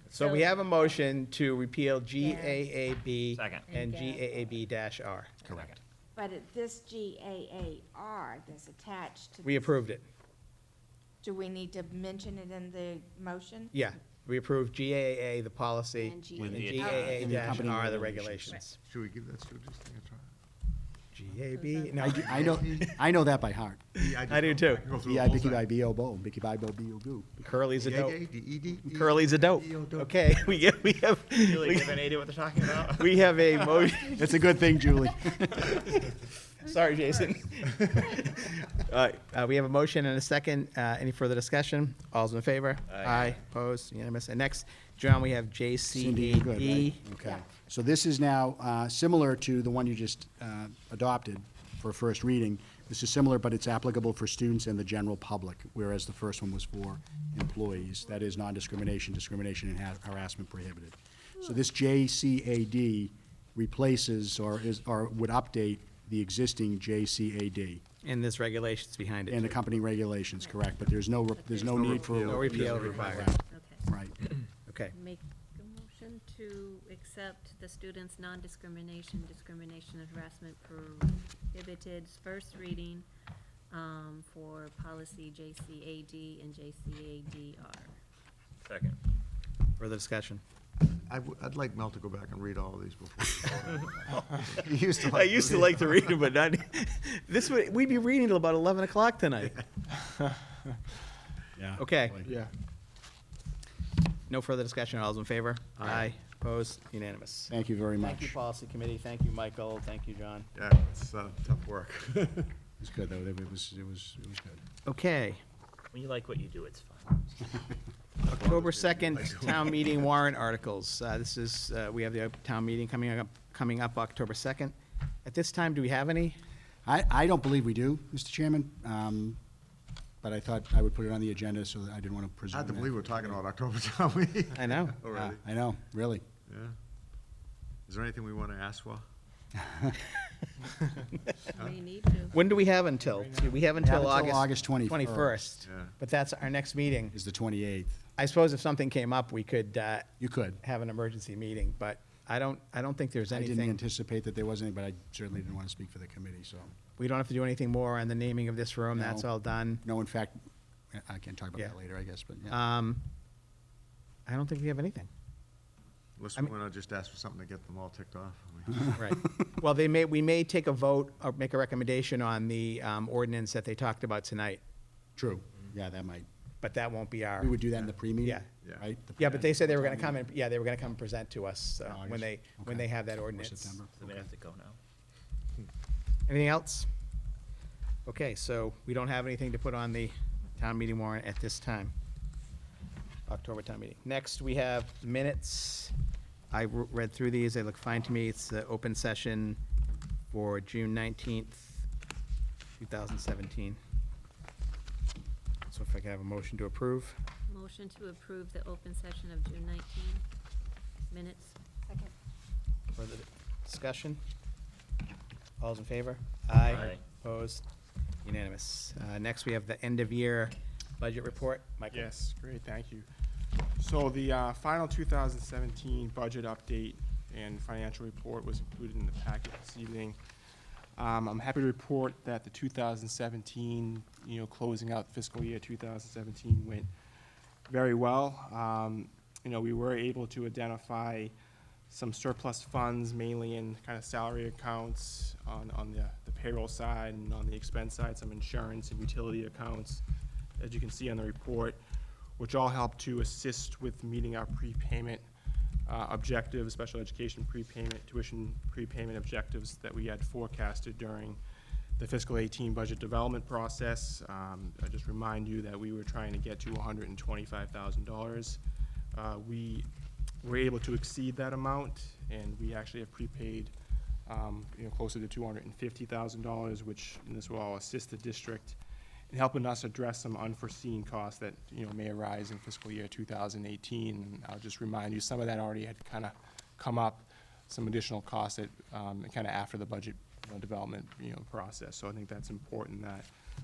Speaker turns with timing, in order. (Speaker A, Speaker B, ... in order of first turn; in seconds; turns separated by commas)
Speaker A: 0.1-5.3, Speaker B: 0.2-0.5, Speaker B: 2.2-2.6, Speaker C: 3.3-3.7, Speaker B: 3.7-4.3, Speaker D: 6.2-9.8, Speaker A: 9.4-10.0, Speaker D: 11.2-13.7, Speaker A: 13.7-18.8, Speaker D: 16.0-17.4, Speaker C: 16.4-17.4, Speaker E: 16.4-18.6, Speaker F: 18.8-20.3, Speaker A: 21.1-22.9, Speaker B: 21.5-22.2, Speaker E: 22.0-24.0, Speaker F: 22.2-23.0, Speaker F: 24.0-25.6, Speaker A: 24.0-24.8, Speaker E: 25.0-27.5, Speaker A: 27.4-28.2, Speaker F: 27.8-30.1, Speaker A: 28.8-32.0, Speaker C: 31.4-33.2, Speaker A: 32.6-34.4, Speaker E: 34.1-35.6, Speaker A: 35.3-47.0, Speaker C: 42.9-43.4, Speaker E: 45.9-67.8, Speaker A: 68.0-69.6, Speaker E: 69.3-74.1, Speaker B: 70.4-73.8, Speaker F: 71.7-73.2, Speaker A: 72.2-73.3, Speaker A: 74.7-74.9, Speaker B: 74.9-83.0, Speaker B: 83.7-87.9, Speaker C: 88.6-89.0, Speaker A: 89.8-90.4, Speaker F: 90.8-96.1, Speaker A: 95.0-99.6, Speaker G: 100.0-100.7, Speaker E: 101.5-102.3, Speaker A: 101.8-102.2, Speaker G: 102.2-102.5, Speaker A: 104.3-110.5, Speaker E: 107.5-108.3, Speaker F: 110.5-112.5, Speaker E: 112.8-114.6, Speaker A: 114.8-115.4, Speaker C: 115.9-117.5, Speaker F: 118.2-120.0, Speaker A: 118.4-126.4, Speaker E: 126.8-129.4, Speaker E: 130.2-133.1, Speaker F: 132.5-135.4, Speaker A: 134.5-135.0, Speaker E: 135.1-136.2, Speaker F: 136.5-136.7, Speaker F: 137.9-139.0, Speaker B: 141.5-142.5, Speaker A: 142.3-147.1, Speaker G: 142.9-143.8, Speaker E: 143.8-145.4, Speaker F: 145.6-145.9, Speaker E: 147.1-148.0, Speaker A: 148.2-153.8, Speaker E: 150.2-150.6, Speaker E: 153.3-156.7, Speaker A: 157.0-159.8, Speaker E: 158.9-159.3, Speaker E: 159.8-162.6, Speaker A: 162.5-163.0, Speaker A: 164.2-165.1, Speaker F: 166.2-169.0, Speaker A: 168.9-174.6, Speaker E: 175.2-176.2, Speaker A: 176.6-177.6, Speaker E: 177.4-180.2, Speaker A: 178.2-178.5, Speaker A: 179.2-183.8, Speaker E: 181.8-184.1, Speaker C: 184.0-184.8, Speaker A: 186.3-186.9, Speaker A: 188.0-191.9, Speaker A: 193.3-195.9, Speaker A: 196.5-199.6, Speaker A: 200.3-201.8, Speaker A: 202.8-203.8, Speaker A: 205.7-207.2, Speaker B: 207.5-210.2, Speaker B: 211.1-211.6, Speaker A: 212.9-214.2, Speaker A: 215.6-217.7, Speaker C: 216.7-217.0, Speaker A: 218.2-222.1, Speaker G: 221.9-223.1, Speaker G: 223.8-230.2, Speaker G: 231.0-236.9, Speaker G: 237.7-241.3, Speaker G: 241.9-250.0, Speaker G: 250.6-251.8, Speaker G: 252.4-255.2, Speaker G: 255.9-261.4, Speaker G: 262.0-268.6, Speaker G: 269.1-269.9, Speaker G: 270.4-273.7, Speaker G: 274.3-278.8, Speaker G: 279.3-293.3